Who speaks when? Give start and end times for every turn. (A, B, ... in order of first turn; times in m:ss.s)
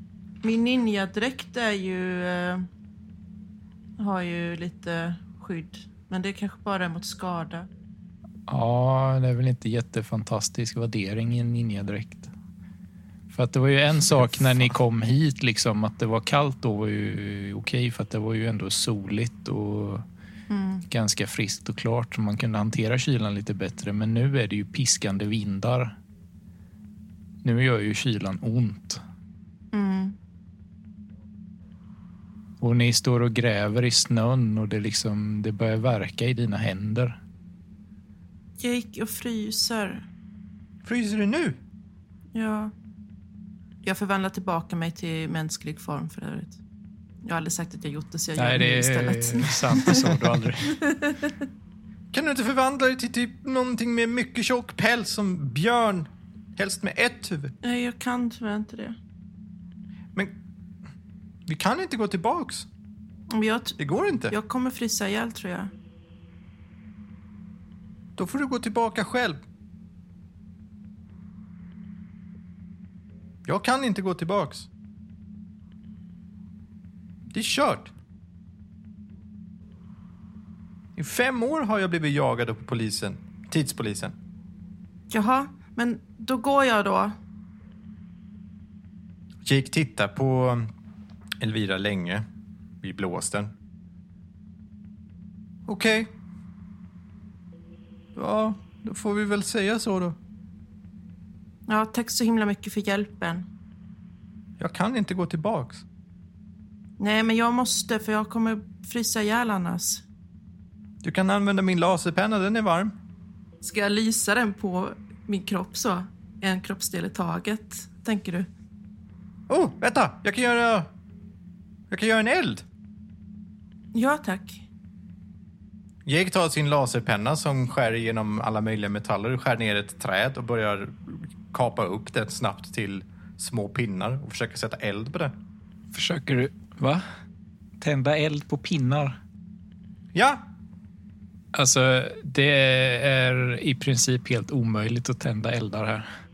0:00.4-0:02.6 A
0:04.0-0:07.7 A
0:08.5-0:12.3 B
0:13.3-0:20.0 B
0:20.5-0:20.8 A
0:20.9-0:25.9 B
0:27.4-0:29.0 B
0:29.7-0:30.2 A
0:32.6-0:37.2 B
0:38.6-0:40.0 A
0:40.8-0:41.6 C
0:42.3-0:42.7 A
0:43.8-0:46.6 A
0:47.2-0:51.4 A
0:48.4-0:50.8 B
0:52.1-0:57.5 C
0:57.6-0:59.0 A
1:01.5-1:02.7 C
1:03.3-1:03.8 A
1:03.8-1:04.3 C
1:04.3-1:05.7 A
1:08.2-1:09.4 C
1:13.5-1:14.7 C
1:17.3-1:17.9 C
1:21.0-1:24.1 C
1:25.1-1:27.2 A
1:29.4-1:30.7 C
1:31.4-1:32.2 C
1:32.8-1:33.5 C
1:35.6-1:36.1 C
1:38.1-1:40.2 C
1:41.7-1:43.4 A
1:44.6-1:45.8 C
1:47.0-1:50.0 A
1:51.0-1:52.9 C
1:53.6-1:58.5 A
1:59.5-2:00.9 C
2:01.9-2:02.6 C
2:03.9-2:04.6 A
2:06.0-2:15.3 C
2:15.9-2:17.0 B
2:17.8-2:19.2 B
2:20.1-2:20.4 C
2:21.5-2:26.1 B